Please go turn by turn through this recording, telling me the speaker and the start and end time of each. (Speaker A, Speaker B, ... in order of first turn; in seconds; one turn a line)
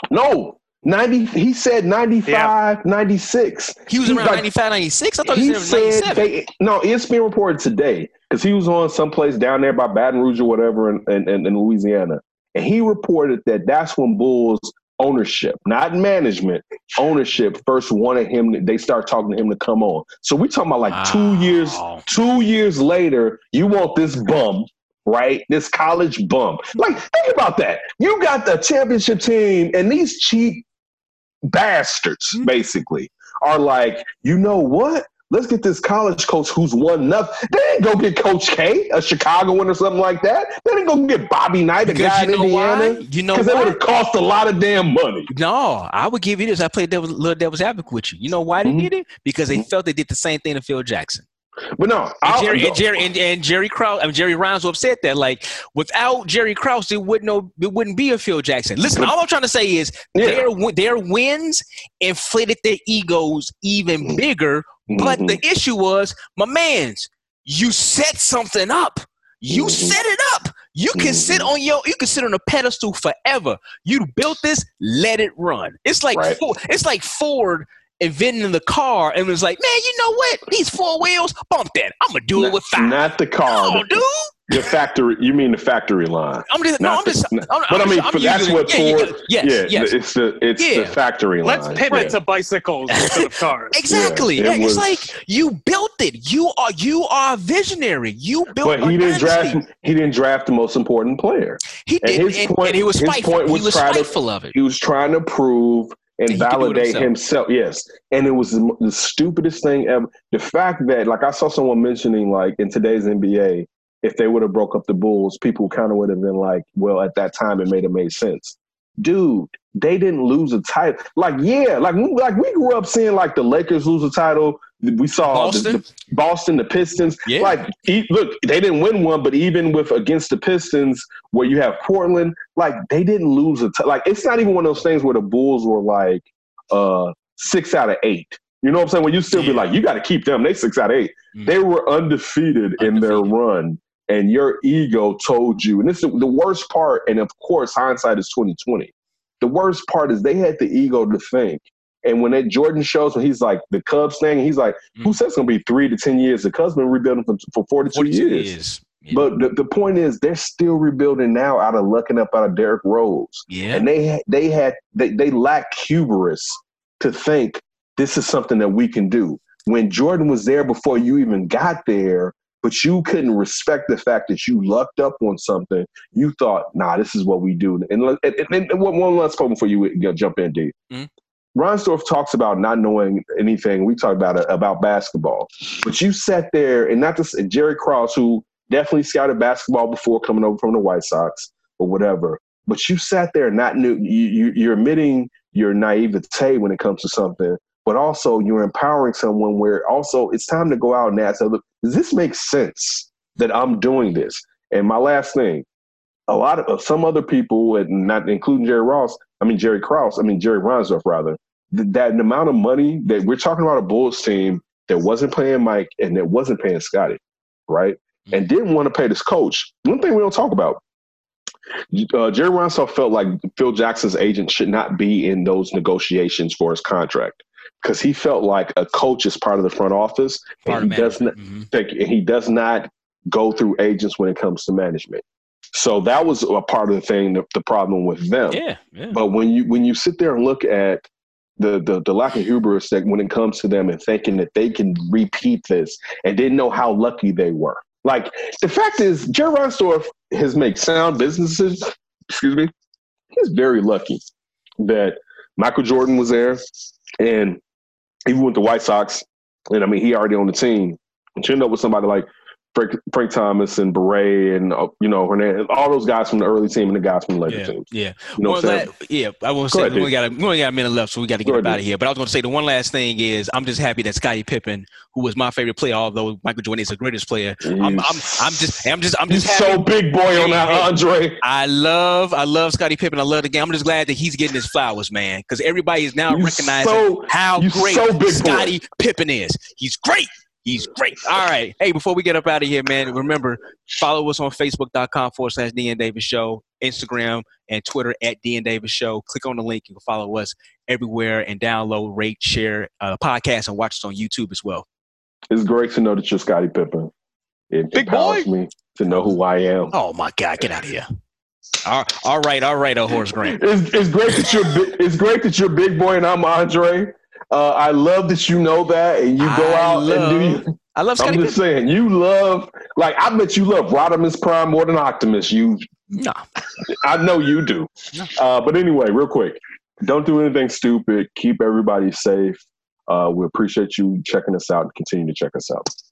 Speaker A: 0.1-4.5
Speaker B: 2.3-2.5
Speaker C: 3.9-6.3
Speaker A: 5.2-30.6
Speaker C: 20.9-22.0
Speaker A: 31.5-45.3
Speaker C: 41.9-43.8
Speaker C: 45.3-51.2
Speaker A: 48.6-48.9
Speaker A: 51.8-53.0
Speaker C: 52.2-84.7
Speaker A: 60.1-60.5
Speaker A: 64.9-65.4
Speaker A: 69.5-70.0
Speaker A: 71.0-71.5
Speaker A: 76.1-76.4
Speaker A: 82.4-92.2
Speaker C: 86.5-89.9
Speaker C: 90.6-91.0
Speaker B: 91.5-93.8
Speaker C: 91.9-92.2
Speaker C: 92.9-99.6
Speaker A: 93.9-95.1
Speaker A: 98.6-158.5
Speaker C: 101.8-104.5
Speaker C: 106.3-107.1
Speaker C: 125.3-125.8
Speaker C: 127.3-127.6
Speaker C: 139.3-139.7
Speaker C: 142.8-143.3
Speaker C: 157.9-159.3
Speaker A: 159.1-180.8
Speaker C: 163.5-163.9
Speaker A: 181.6-205.7
Speaker A: 206.3-220.8
Speaker A: 221.9-235.2
Speaker C: 230.7-231.7
Speaker A: 235.7-241.1
Speaker C: 238.5-239.2
Speaker A: 241.6-252.7
Speaker A: 253.3-254.2
Speaker A: 254.8-256.6
Speaker A: 257.2-257.6
Speaker A: 258.3-267.9
Speaker C: 267.5-304.9
Speaker A: 268.4-268.9
Speaker A: 269.7-270.1
Speaker A: 271.4-271.8
Speaker A: 277.6-281.4
Speaker A: 286.3-288.8
Speaker A: 305.5-307.1
Speaker A: 307.7-309.9
Speaker B: 307.9-308.5
Speaker C: 309.9-311.1
Speaker C: 311.8-313.6
Speaker A: 313.4-325.9
Speaker C: 319.4-321.6
Speaker C: 326.1-326.4
Speaker A: 326.9-335.9